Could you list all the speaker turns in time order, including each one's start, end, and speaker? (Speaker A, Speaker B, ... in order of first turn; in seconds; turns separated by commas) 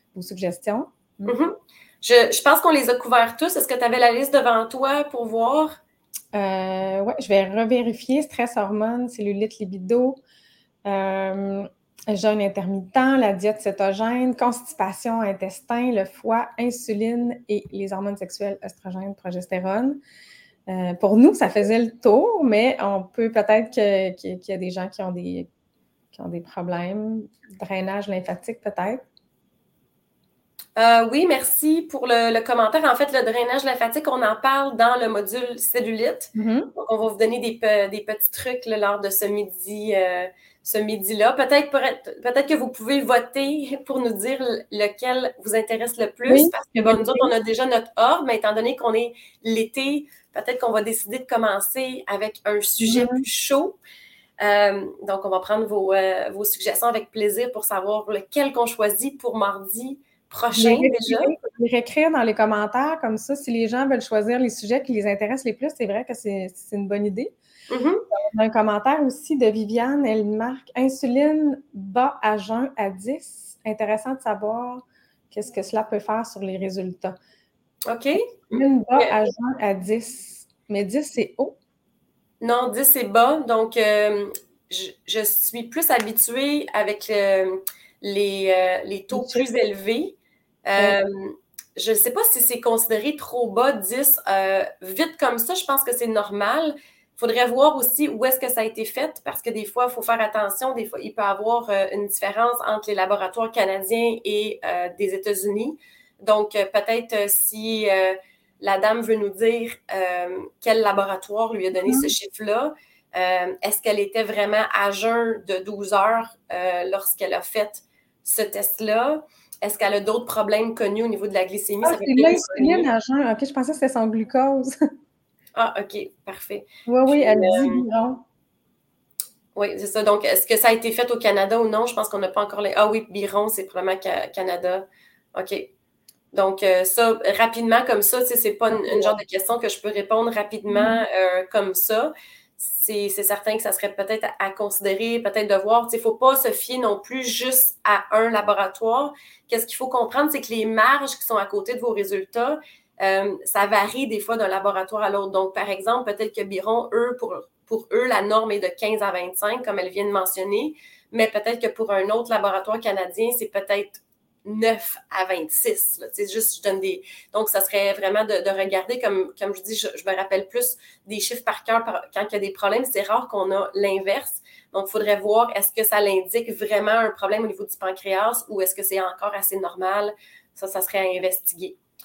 Speaker A: 0.1-1.3, Speaker B: 1.2-5.8, Speaker A: 6.3-10.2, Speaker A: 10.8-20.0, Speaker A: 20.7-25.5, Speaker A: 26.1-29.0, Speaker B: 30.8-53.8, Speaker A: 36.4-36.7, Speaker A: 46.3-47.3, Speaker A: 52.9-53.2, Speaker B: 54.4-61.3, Speaker A: 60.5-67.3, Speaker B: 67.7-68.0, Speaker A: 68.1-77.1, Speaker B: 77.9-79.2, Speaker A: 78.5-81.5, Speaker B: 82.4-122.9, Speaker A: 89.1-89.4, Speaker A: 111.8-112.1, Speaker A: 121.8-124.8, Speaker B: 125.5-127.8, Speaker A: 126.8-128.2, Speaker B: 129.6-135.7, Speaker B: 136.3-181.8, Speaker A: 138.7-139.1, Speaker A: 140.7-141.0